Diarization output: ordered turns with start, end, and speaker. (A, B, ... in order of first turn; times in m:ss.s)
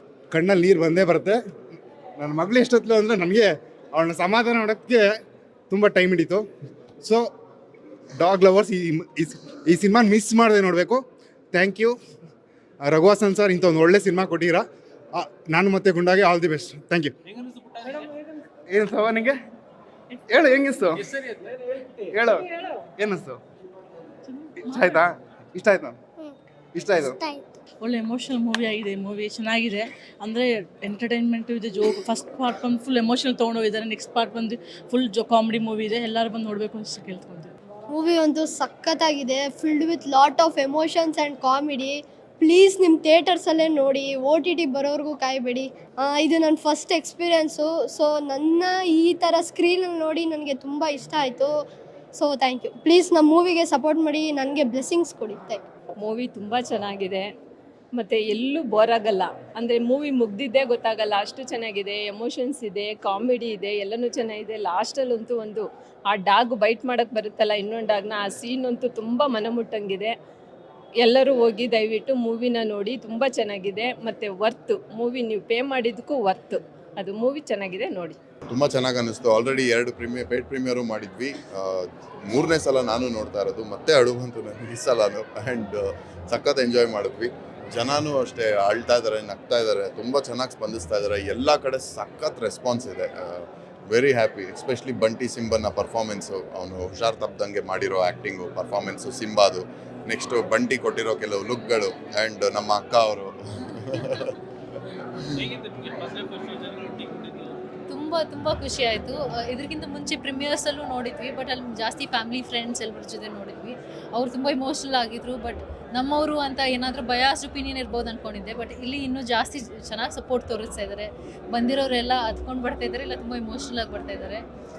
0:00.3-0:01.4 A
0:02.2-0:05.1 A
0:05.7-0:06.5 A
0:08.2-0:11.0 A
0:11.5-0:12.0 A
0:12.9-0:17.1 A
0:18.7-0:19.4 A
0:20.3-0:21.1 A
0:22.1-0:22.4 A
0:23.0-0:23.4 A
0:24.6-0:26.0 A
0:26.8-0:27.2 A
0:27.8-0:37.5 B
0:37.9-0:51.5 C
0:52.1-0:55.6 C
0:56.0-0:57.3 D
0:57.9-1:10.2 D
1:11.0-1:18.2 D
1:18.5-1:43.3 E
1:43.9-1:44.3 E
1:47.9-2:04.4 F